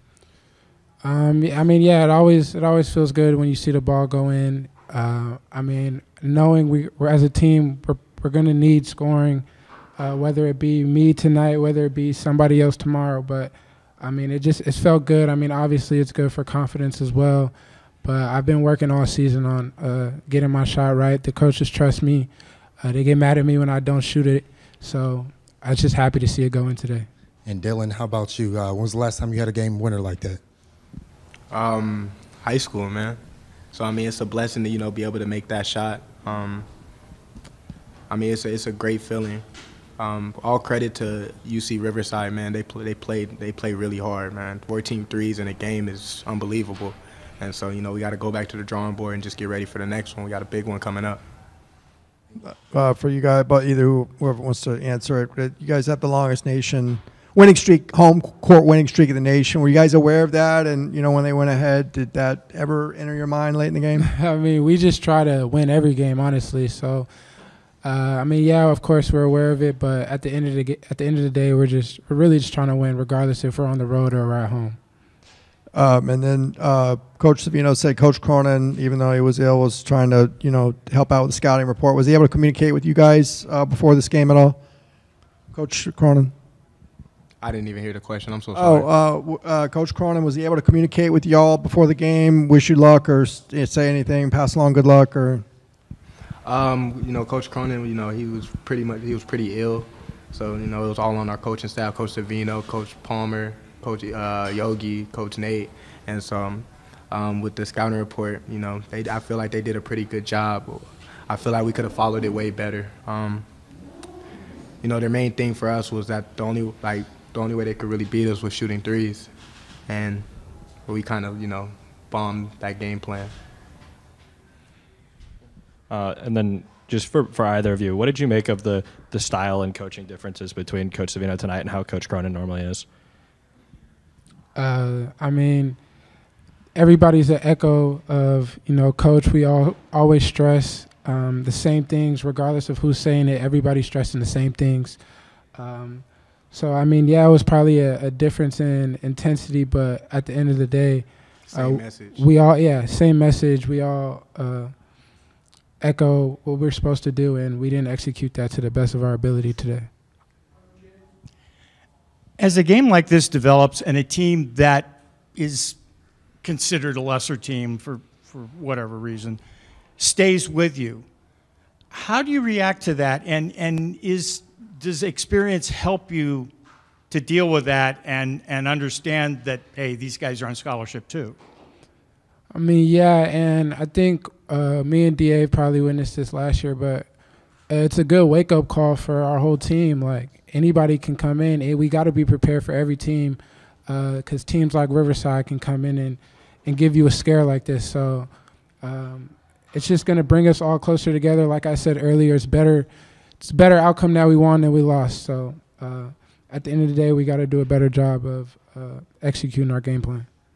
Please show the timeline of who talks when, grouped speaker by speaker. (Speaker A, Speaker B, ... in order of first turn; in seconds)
Speaker A: 1.0-27.1, 64.0-67.1, 67.8-74.8, 134.6-135.8, 136.8-145.0, 145.5-154.8, 155.8-159.9, 182.5-187.1, 187.7-198.3, 198.8-202.9, 203.4-210.3
Speaker B: 27.4-30.4
Speaker C: 31.5-33.2, 33.7-36.7, 38.1-39.4, 40.0-51.2, 87.4-88.9, 96.5-113.5, 114.8-119.3, 119.9-120.3, 120.9-123.3, 151.5-152.2
Speaker D: 52.4-64.1, 75.7-84.6, 85.5-86.3, 88.5-95.4
Speaker E: 125.9-132.8
Speaker F: 162.4-165.8, 166.4-169.4, 170.0-171.1, 171.9-176.5, 177.1-181.4